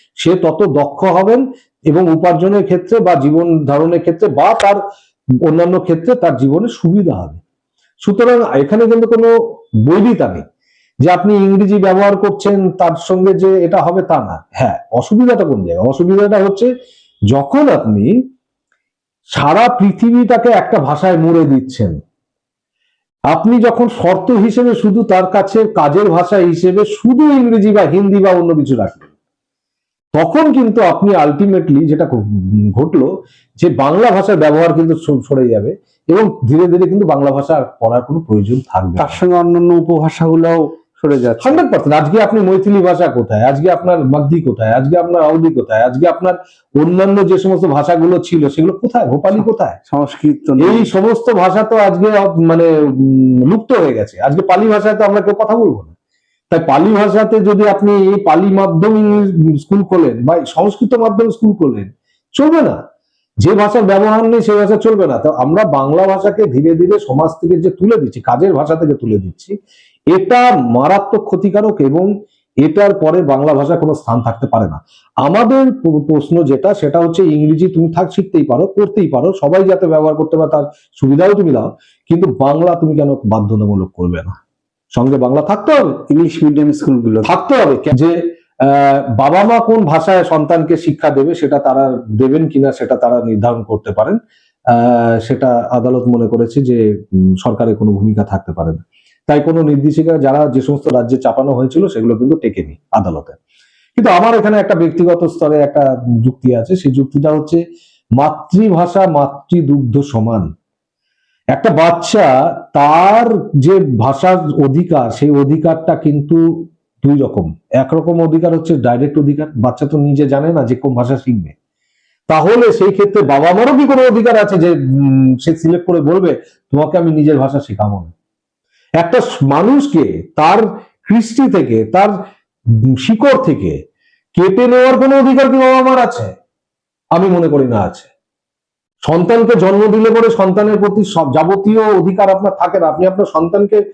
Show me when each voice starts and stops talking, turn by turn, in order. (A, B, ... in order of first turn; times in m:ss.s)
0:00.2-0:04.8 A
0:05.4-0:07.4 A
0:08.0-0:09.3 A
0:09.8-0:10.4 A
0:11.0-0:16.7 A
0:17.3-0:18.1 A
0:19.3-0:22.0 A
0:23.3-0:29.1 A
0:30.1-0:33.1 A
0:33.6-0:39.2 A
0:39.0-0:41.6 B
0:41.4-0:49.8 A
0:49.4-0:50.9 B
0:50.6-0:55.9 A
0:56.5-1:02.8 A
1:03.4-1:09.5 A
1:10.1-1:12.1 A
1:12.6-1:24.3 A
1:24.9-1:26.0 A
1:26.1-1:27.3 B
1:27.2-1:34.2 A
1:34.7-1:36.8 A
1:37.4-1:43.4 A
1:44.0-1:47.6 A
1:48.2-1:50.5 A
1:51.5-1:56.4 A
1:57.0-2:01.5 A
2:02.3-2:08.1 A
2:09.0-2:12.1 A
2:13.0-2:13.8 A
2:14.3-2:16.3 A
2:17.1-2:18.1 A
2:19.0-2:23.8 A